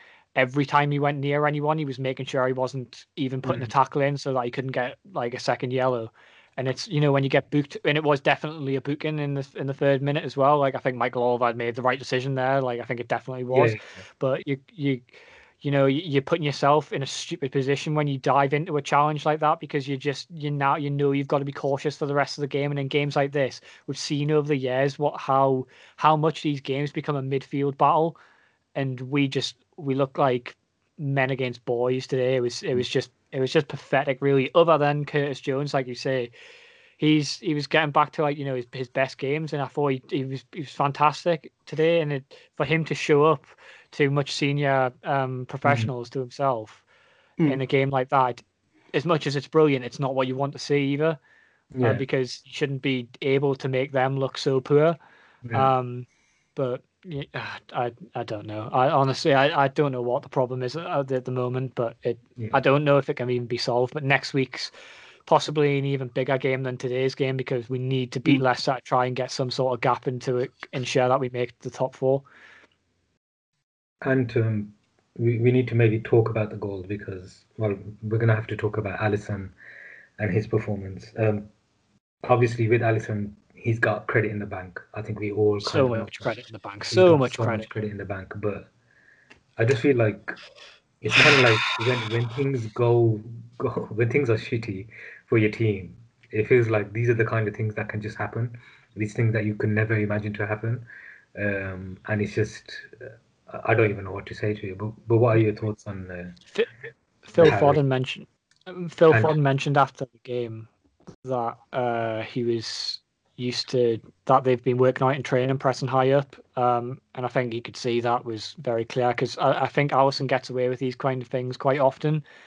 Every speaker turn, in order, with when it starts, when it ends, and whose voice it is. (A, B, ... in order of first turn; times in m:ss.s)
0:00.4-0:15.1 A
0:03.4-0:03.7 B
0:13.5-0:13.8 B
0:15.6-0:28.2 A
0:28.8-0:36.3 A
0:37.0-0:46.8 A
0:45.6-0:45.9 B
0:47.5-0:48.4 A
0:48.9-0:51.2 A
0:51.7-0:52.0 B
0:51.8-0:55.0 A
0:55.5-1:04.7 A
1:05.3-1:12.2 A
1:14.0-1:19.5 B
1:20.2-1:21.5 B
1:22.2-1:26.3 B
1:25.6-1:27.7 A
1:26.9-1:28.7 B
1:29.6-1:30.4 B
1:31.0-1:46.4 B
1:47.2-1:50.7 A
1:47.4-1:47.8 B
1:51.2-2:02.2 A